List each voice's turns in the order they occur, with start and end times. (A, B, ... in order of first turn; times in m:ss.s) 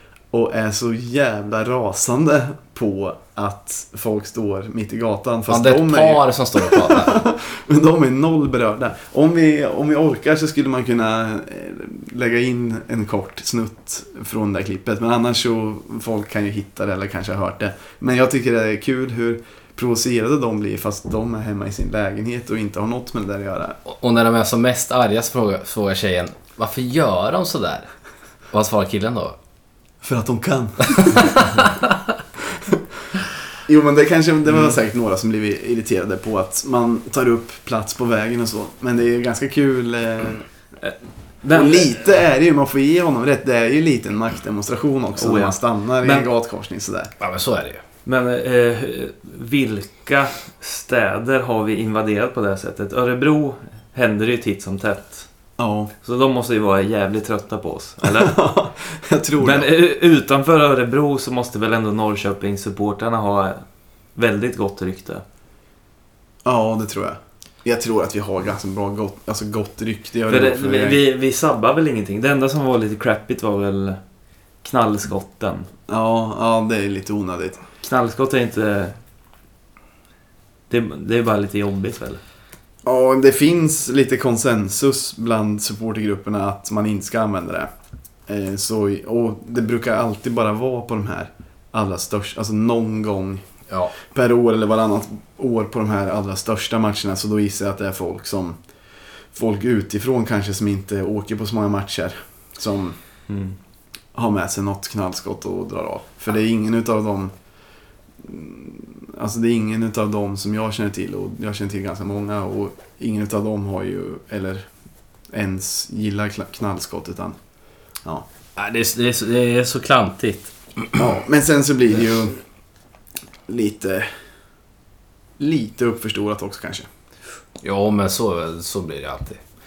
0:00.3-0:23.8 A
0:05.5-0:07.2 B
0:23.8-0:27.9 B
0:28.5-0:29.4 B
0:30.0-0:31.4 A
0:31.2-0:32.0 B
0:33.6-0:40.4 A
0:40.8-0:42.0 C
0:41.5-0:47.1 A
0:45.2-0:46.3 C
0:47.2-0:47.8 B
0:48.0-0:55.3 C
0:55.6-0:55.9 A
0:56.0-0:58.4 C
0:58.0-0:59.7 A
0:59.4-1:03.6 C
1:04.2-1:05.2 C
1:06.4-1:11.0 A
1:10.3-1:14.0 C
1:14.6-1:15.7 C
1:15.9-1:17.6 A
1:17.8-1:19.0 C
1:20.7-1:22.2 C
1:22.8-1:27.7 A
1:28.3-1:33.4 A
1:34.1-1:38.6 A
1:39.3-1:43.0 A
1:43.3-1:43.6 C
1:44.1-1:47.3 A
1:48.2-1:54.6 A
1:55.3-1:57.4 A
1:58.6-2:00.9 B
2:01.0-2:02.4 A
2:03.5-2:04.1 A
2:05.4-2:06.9 A
2:07.6-2:09.4 B